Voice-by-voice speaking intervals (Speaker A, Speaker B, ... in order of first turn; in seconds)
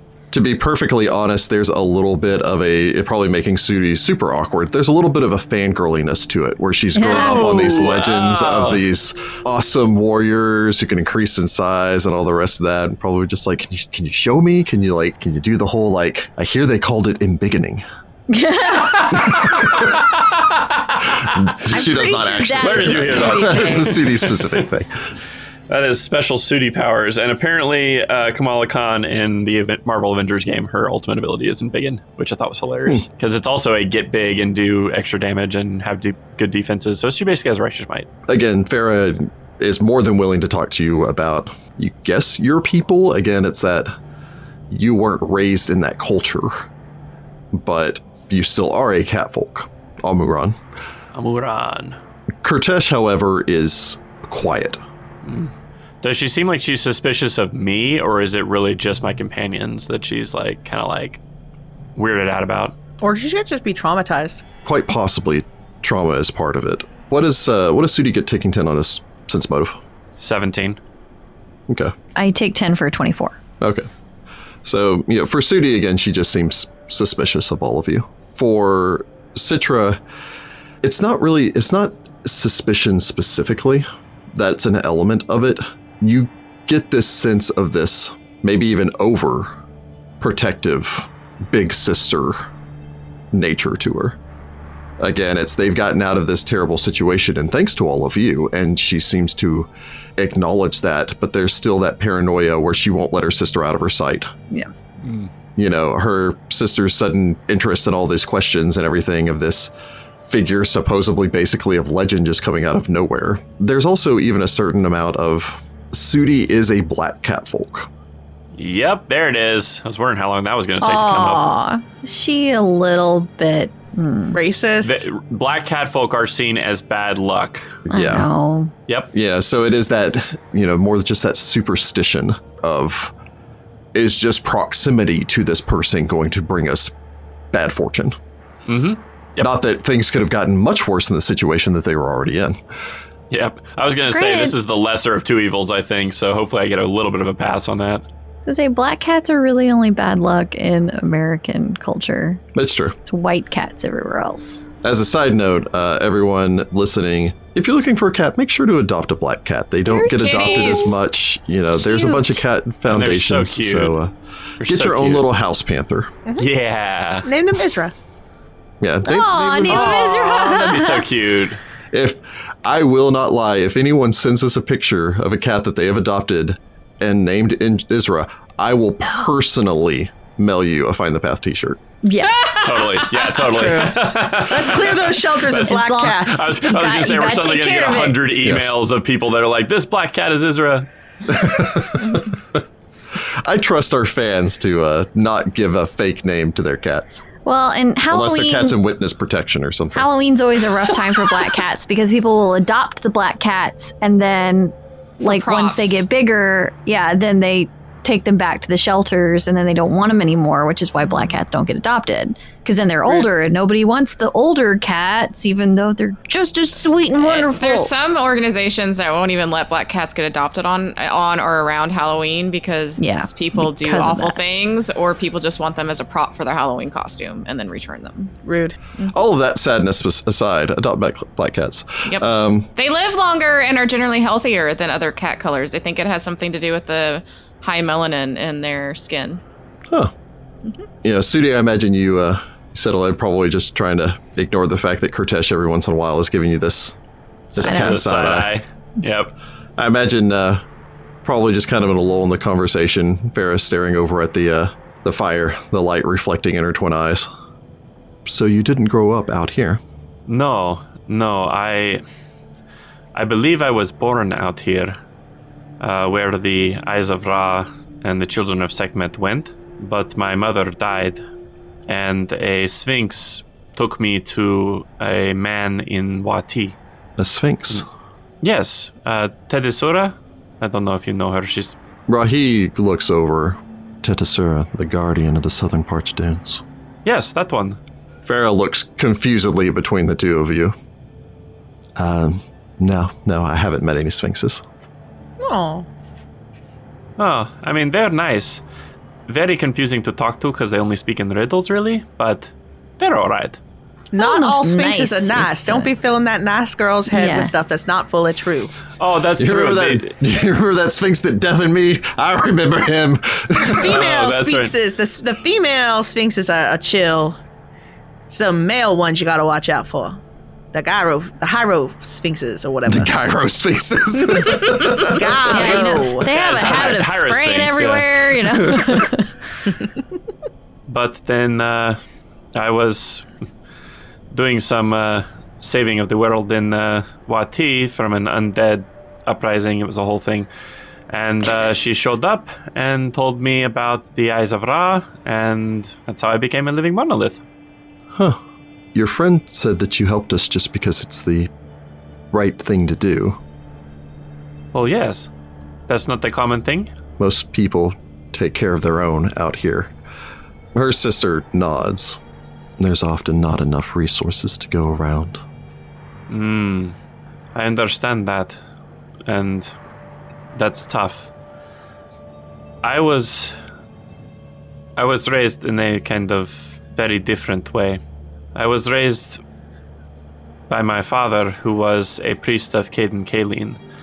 Speaker A: 0.3-17.8, 19.3-19.9, 21.3-24.9, 38.3-43.9, 44.7-46.7, 47.5-50.6, 52.4-54.8, 64.6-69.8, 71.7-71.9, 73.6-73.8, 74.6-80.0, 80.8-89.5, 90.2-92.5, 93.3-94.2, 95.0-104.3, 105.6-109.7, 110.3-117.9, 127.9-128.3, 129.1-133.1, 133.9-136.9, 137.5-138.2, 139.4-142.6, 152.5-152.9, 154.8-164.1, 164.6-166.1, 168.8-170.4, 171.9-181.8, 188.4-188.7, 191.2-192.6, 193.1-197.2, 198.1-200.1, 229.1-232.7, 241.0-247.0, 247.5-248.5, 249.8-250.6, 251.2-257.3, 258.2-259.8, 277.2-277.9, 282.1-286.6, 288.2-290.7, 292.0-294.6, 309.4-314.0, 322.9-325.4, 348.1-348.4, 348.9-351.5, 352.3-353.4, 357.2-359.9, 360.7-362.2, 362.8-365.4
Speaker B: 7.0-7.8, 18.3-19.5, 21.7-23.9, 72.2-73.3, 120.8-124.4, 127.9-128.7, 144.1-144.6, 148.5-154.6, 160.0-160.9, 161.8-162.4, 169.0-171.1, 182.0-183.0, 185.6-188.2, 197.4-198.7, 199.9-217.9, 223.0-224.4, 247.6-247.9, 304.2-305.9, 307.1-307.5, 325.5-329.3
Speaker C: 7.0-8.8, 19.1-21.5, 22.6-24.7, 25.7-38.1, 51.1-52.0, 55.2-61.2, 62.0-62.7, 70.2-70.8, 105.0-105.3, 118.5-121.5, 124.8-127.8, 138.7-139.5, 143.3-148.0, 162.9-163.9, 164.6-165.2, 166.4-167.3, 169.7-171.6, 182.5-190.9, 247.5-249.3, 260.3-262.0, 263.1-264.9, 265.8-271.2, 271.9-276.8, 278.4-281.7, 287.0-287.8, 297.2-298.6, 299.3-303.6, 309.0-310.1, 313.8-314.7, 326.2-328.2, 330.9-332.0, 332.5-333.2, 334.3-340.5, 341.1-347.4, 354.7-355.3, 355.9-356.9, 366.3-366.9, 367.5-368.6, 369.3-369.7, 370.5-371.3, 372.8-373.5, 374.9-378.0, 378.5-379.4, 380.7-383.8
Speaker D: 63.0-64.4, 124.3-125.0, 167.2-167.9, 183.2-186.6, 228.4-228.8, 295.4-295.9, 304.1-308.7, 313.7-317.4, 318.3-320.2, 320.7-323.1, 324.3-326.3
Speaker E: 159.9-160.9, 205.2-206.0, 217.2-228.3, 232.1-239.4